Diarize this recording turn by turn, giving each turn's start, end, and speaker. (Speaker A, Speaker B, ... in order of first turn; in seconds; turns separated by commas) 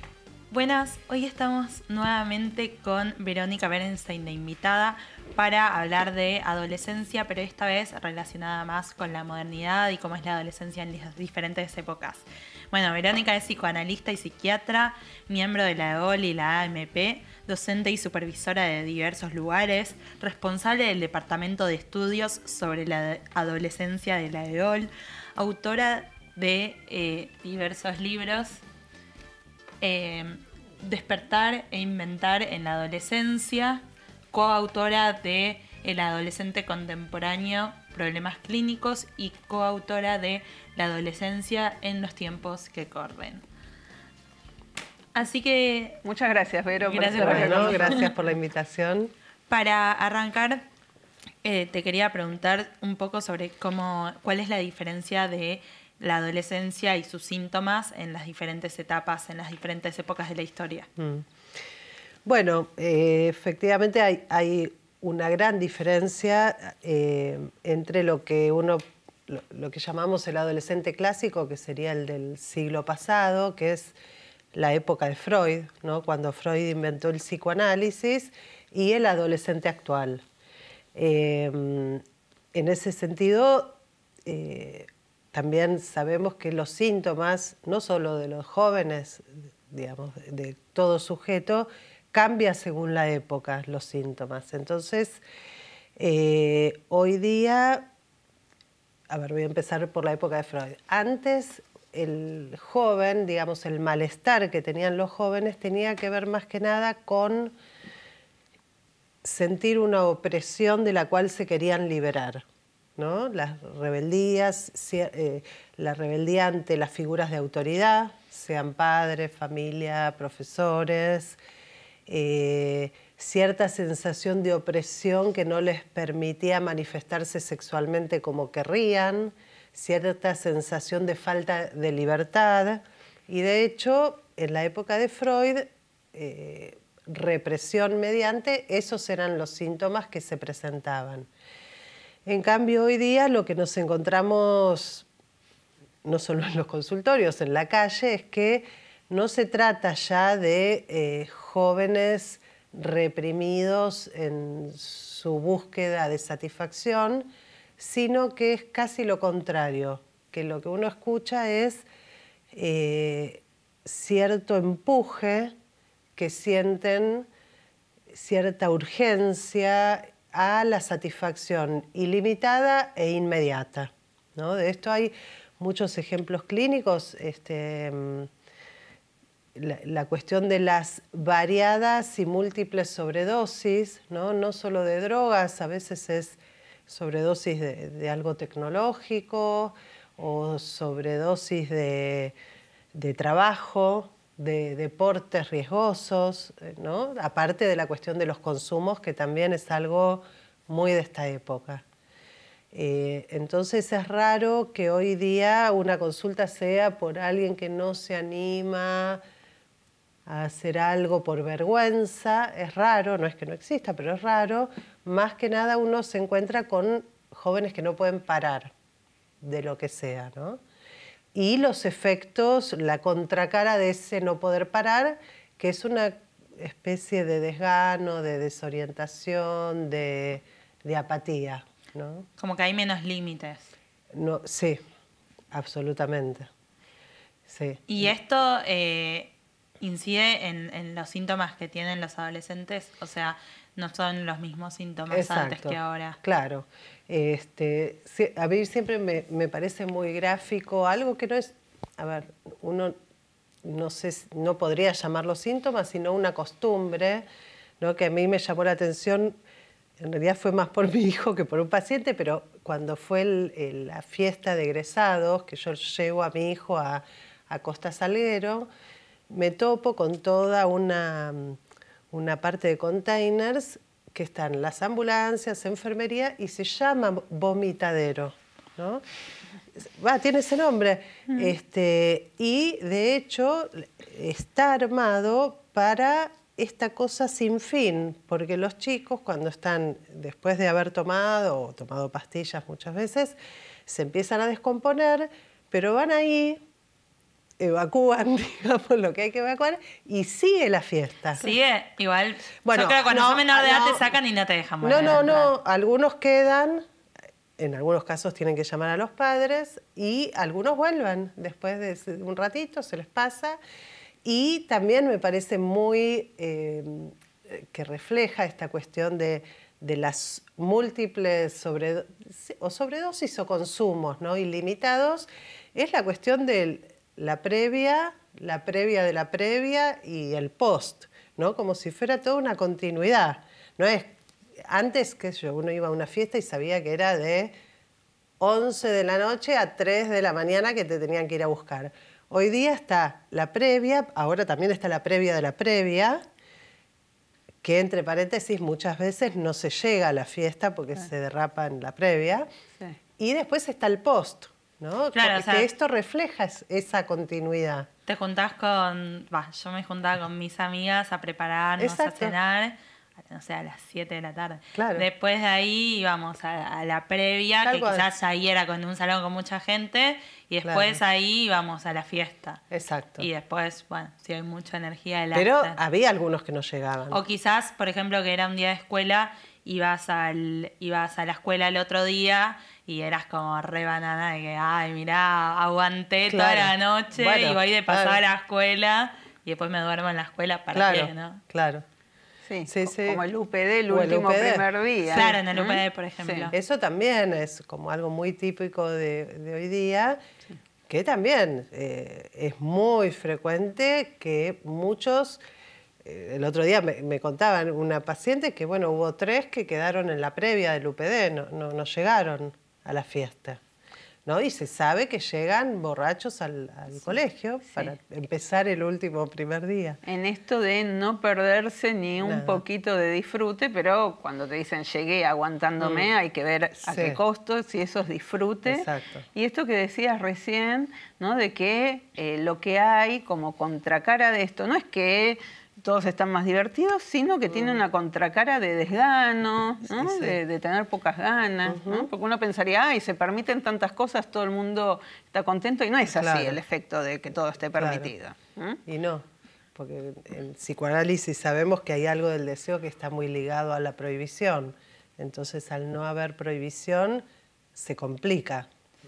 Speaker A: 0.5-28.6, Speaker A: 29.8-43.4, Speaker A: 45.1-46.0, Speaker B: 46.0-48.0, Speaker A: 46.8-48.0, Speaker C: 47.2-49.1, Speaker A: 49.5-50.6, Speaker A: 51.4-60.9, Speaker C: 61.0-61.3, Speaker C: 62.2-73.9, Speaker C: 74.5-80.2, Speaker C: 80.9-82.0, Speaker C: 82.5-95.2, Speaker C: 96.0-97.9, Speaker C: 99.1-107.5, Speaker C: 109.2-112.4, Speaker C: 113.0-121.4, Speaker C: 122.1-141.3, Speaker C: 142.2-145.1, Speaker C: 146.0-161.8, Speaker C: 162.5-165.5, Speaker C: 166.2-167.3, Speaker C: 168.1-178.3, Speaker C: 179.5-192.3, Speaker C: 192.9-201.8, Speaker C: 202.7-209.2, Speaker C: 210.2-218.7, Speaker C: 219.4-220.6, Speaker C: 221.3-232.3, Speaker A: 232.4-233.7, Speaker C: 234.1-234.8, Speaker C: 235.5-236.5, Speaker C: 237.5-238.1, Speaker A: 237.9-246.2, Speaker C: 245.1-252.9, Speaker C: 253.6-257.2, Speaker C: 257.8-259.4, Speaker C: 260.0-268.7, Speaker C: 269.3-271.6, Speaker C: 272.1-279.0, Speaker C: 279.7-296.6, Speaker C: 297.6-301.4, Speaker A: 301.4-305.5, Speaker C: 302.6-304.1, Speaker C: 304.8-306.8, Speaker C: 307.6-313.6, Speaker C: 314.2-337.5, Speaker C: 338.4-346.2, Speaker C: 347.6-352.5, Speaker C: 353.2-357.9, Speaker A: 355.1-355.7, Speaker A: 358.1-362.7, Speaker C: 361.8-362.3, Speaker A: 363.3-372.6, Speaker C: 364.7-365.1, Speaker C: 367.6-368.1, Speaker C: 370.6-371.0, Speaker C: 372.7-373.3, Speaker A: 373.2-375.8, Speaker C: 375.3-377.2, Speaker A: 377.1-391.4, Speaker C: 386.3-388.2, Speaker C: 390.7-391.8, Speaker B: 392.4-396.5, Speaker C: 392.7-393.2, Speaker C: 393.9-395.3, Speaker A: 395.1-396.6, Speaker C: 396.5-400.2, Speaker C: 400.9-405.4, Speaker C: 406.0-413.6, Speaker C: 414.2-420.0, Speaker B: 420.1-448.8, Speaker C: 422.2-422.6, Speaker C: 425.8-426.1, Speaker C: 426.9-427.2, Speaker C: 428.6-429.2, Speaker C: 437.5-437.8, Speaker C: 439.9-440.4, Speaker C: 441.7-442.1, Speaker C: 446.1-446.6, Speaker C: 447.8-448.1, Speaker C: 448.9-458.7